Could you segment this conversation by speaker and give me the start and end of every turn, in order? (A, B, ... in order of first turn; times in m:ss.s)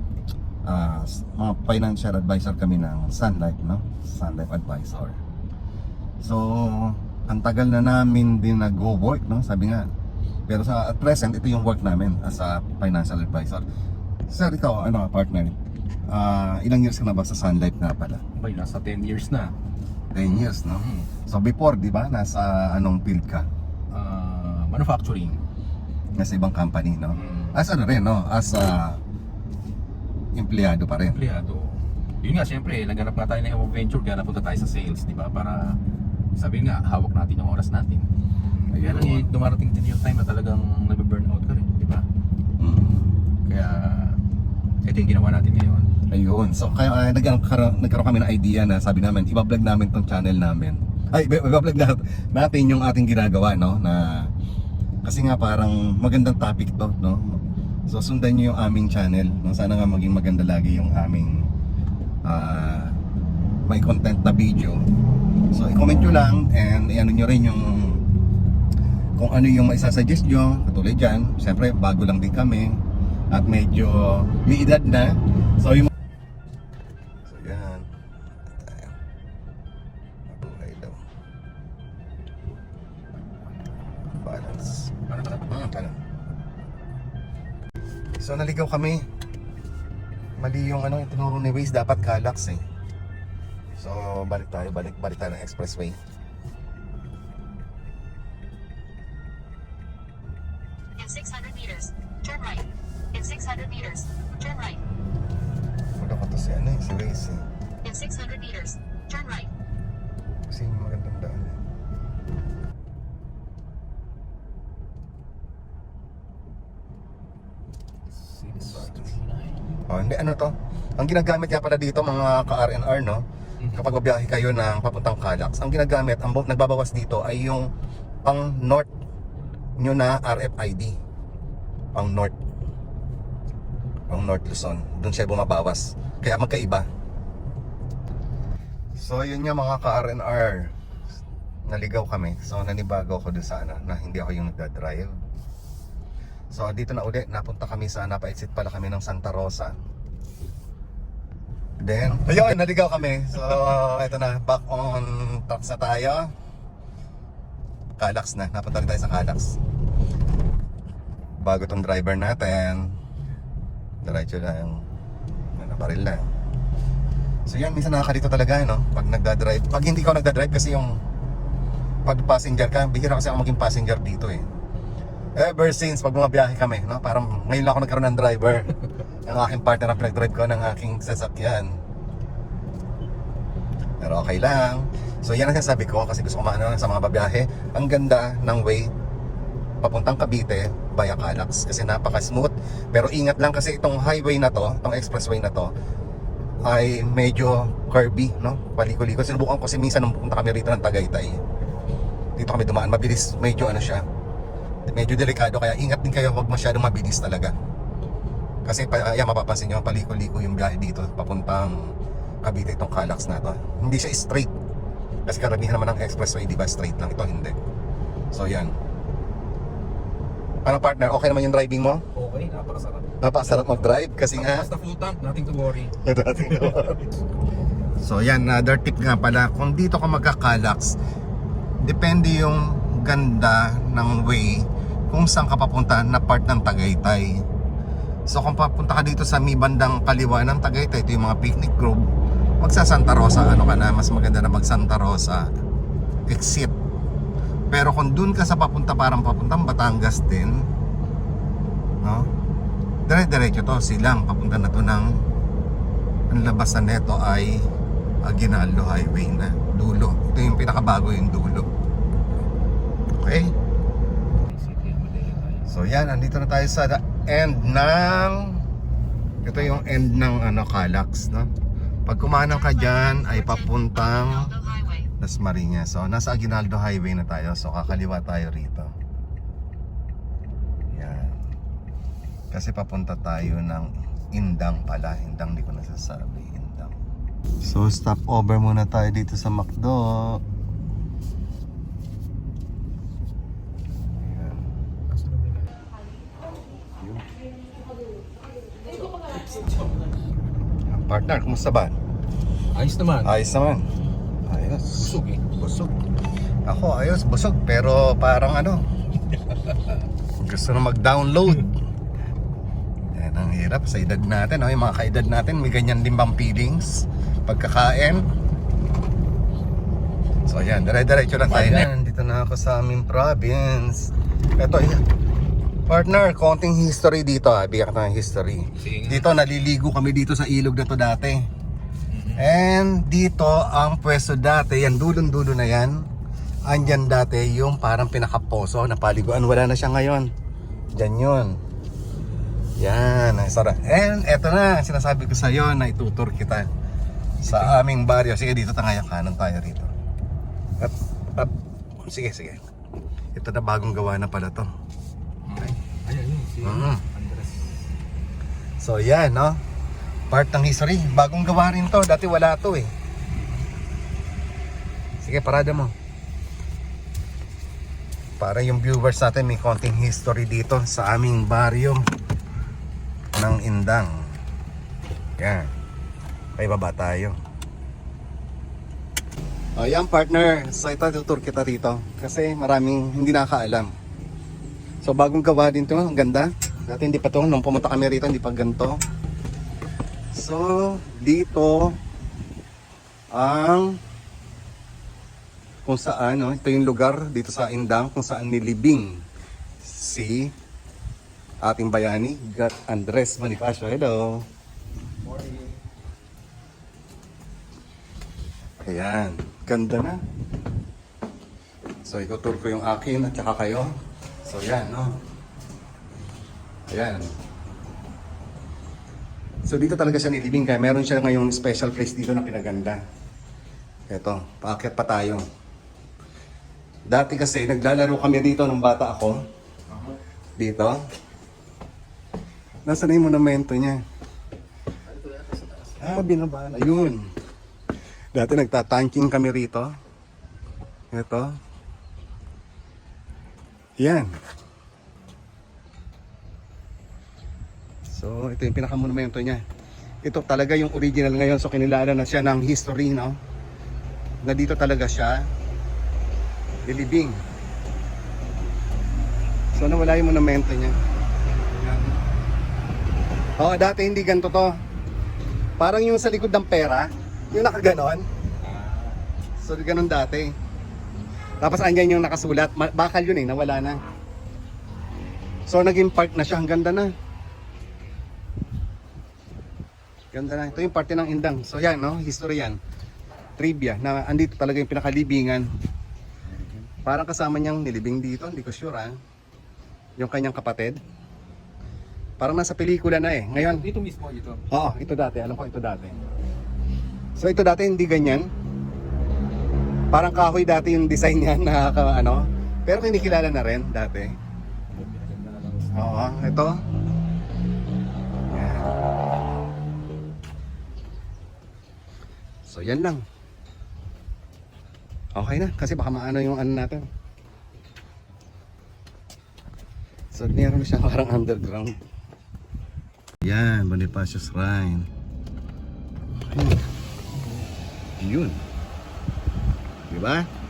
0:00.6-0:05.2 A
0:06.2-0:09.9 A
0:10.5-0:13.6 A
0:14.3-0:15.5 A
0:16.1-0:18.2 A
0:18.4-0:19.5 B
0:20.1-0:23.5 A
0:20.2-0:21.1 B
0:23.9-0:25.4 B
0:26.2-0:29.0 A
0:27.1-0:27.6 B
0:30.4-0:31.2 A
0:31.0-0:35.7 B
0:36.4-0:38.0 B
0:38.7-0:39.3 A
0:38.7-0:42.0 B
0:42.6-0:43.1 A
0:43.4-0:44.2 B
0:44.8-0:45.9 B
0:46.1-0:54.3 A
0:55.0-1:01.5 A
1:02.2-1:03.0 A
1:03.6-1:04.8 A
1:05.5-1:08.0 A
1:09.2-1:12.8 A
1:13.3-1:15.9 A
1:17.2-1:17.9 A
1:18.5-1:18.9 A
1:20.3-1:21.0 A
1:24.2-1:24.9 A
1:25.1-1:25.5 B
1:25.5-1:26.0 A
1:28.2-1:29.0 A
1:30.4-1:32.6 A
1:33.8-1:36.0 A
1:41.0-1:44.8 C
1:46.0-1:47.5 A
1:47.8-1:49.5 C
1:50.5-1:51.6 A
1:58.1-1:59.6 B
1:59.9-2:07.7 A
2:03.6-2:03.9 B
2:08.2-2:08.9 A
2:09.8-2:11.0 A
2:11.9-2:12.3 A
2:14.1-2:16.9 A
2:19.0-2:20.7 A
2:21.6-2:25.2 A
2:26.5-2:29.8 A
2:31.8-2:36.3 A
2:38.0-2:39.6 A
2:41.4-2:42.9 A
2:44.0-2:44.8 A
2:45.6-2:46.2 A
2:47.4-2:51.0 A
2:52.0-2:54.4 A
2:55.4-2:58.7 A
2:59.2-3:01.7 A
3:04.0-3:08.9 A
3:09.8-3:15.7 A
3:16.6-3:21.4 A
3:22.4-3:24.0 A
3:24.9-3:27.5 A
3:28.6-3:34.5 A
3:35.2-3:37.6 A
3:38.3-3:38.8 A
3:40.6-3:42.0 A
3:42.1-3:45.9 B
3:43.2-3:44.6 A
3:46.0-3:47.0 A
3:46.6-3:47.0 B
3:48.0-3:51.0 A
3:51.8-3:57.4 A
3:58.3-4:02.1 A
4:02.6-4:05.5 A
4:06.3-4:06.7 A
4:07.7-4:10.6 A
4:12.0-4:12.3 A
4:13.1-4:15.1 A
4:16.3-4:17.7 A
4:18.2-4:21.7 A
4:23.2-4:23.5 A
4:24.5-4:25.7 B
4:25.7-4:28.6 A
4:29.4-4:31.5 A
4:32.0-4:34.5 A
4:32.4-4:35.1 C
4:35.2-4:38.9 A
4:40.9-4:41.4 A
4:42.5-4:47.0 A
4:47.6-4:50.4 A
4:54.2-4:54.7 A
4:55.1-4:55.6 B
4:57.0-4:57.2 A
5:00.9-5:01.9 A
5:02.7-5:03.4 B
5:03.2-5:03.9 A
5:04.4-5:05.1 A
5:04.9-5:05.9 B
5:06.6-5:08.8 A
5:10.4-5:11.8 A
5:13.1-5:18.3 A
5:20.5-5:25.0 A
5:21.5-5:21.9 B
5:25.9-5:31.4 A
5:28.8-5:29.3 B
5:32.1-5:32.4 B
5:32.4-5:36.0 A
5:36.7-5:40.3 A
5:40.9-5:41.5 A
5:42.8-5:46.7 A
5:47.4-5:49.9 A
5:47.4-5:47.8 B
5:50.8-5:52.6 A
5:53.4-5:54.7 A
5:55.4-5:57.7 B
5:56.6-5:57.0 A
5:58.8-5:59.6 A
6:00.3-6:02.9 A
6:05.2-6:05.9 A
6:08.4-6:12.0 A
6:13.4-6:14.1 A
6:15.4-6:15.7 A
6:16.6-6:17.4 A
6:19.8-6:23.9 A
6:25.0-6:29.0 A
6:30.3-6:32.0 A
6:33.3-6:34.0 A
6:35.8-6:39.2 A
6:39.8-6:40.5 A
6:41.6-6:44.4 A
6:48.8-6:50.2 A
6:52.0-6:53.9 A
6:54.4-6:55.2 A
6:56.9-6:57.3 A
6:59.6-7:03.0 A
7:04.1-7:05.4 A
7:07.1-7:09.4 A
7:09.9-7:10.1 B
7:10.6-7:11.0 A
7:12.8-7:14.0 A
7:15.1-7:17.1 B
7:16.0-7:17.3 A
7:18.3-7:19.9 A
7:21.1-7:21.5 A
7:24.0-7:24.4 A
7:28.1-7:29.6 A
7:30.2-7:33.4 A
7:34.4-7:35.5 A
7:36.8-7:37.4 A
7:39.7-7:41.0 A
7:41.7-7:42.2 A
7:43.6-7:44.7 A
7:45.8-7:48.2 A
7:48.6-7:49.2 B
7:49.6-7:50.5 A
7:51.6-7:54.0 A
7:55.7-7:57.1 A
8:00.3-8:02.8 A
8:03.6-8:05.7 A
8:06.5-8:06.9 B
8:07.0-8:09.2 A
8:10.2-8:11.0 A
8:12.4-8:13.8 A
8:13.5-8:14.6 B
8:14.7-8:16.2 A
8:17.4-8:18.5 A
8:20.1-8:24.4 A
8:24.9-8:26.0 B
8:25.9-8:26.7 A
8:28.5-8:28.9 A
8:32.6-8:33.2 A
8:35.3-8:37.0 A
8:40.3-8:42.0 A
8:43.4-8:45.1 A
8:46.4-8:46.8 A
8:48.2-8:48.6 A
8:50.1-8:50.5 A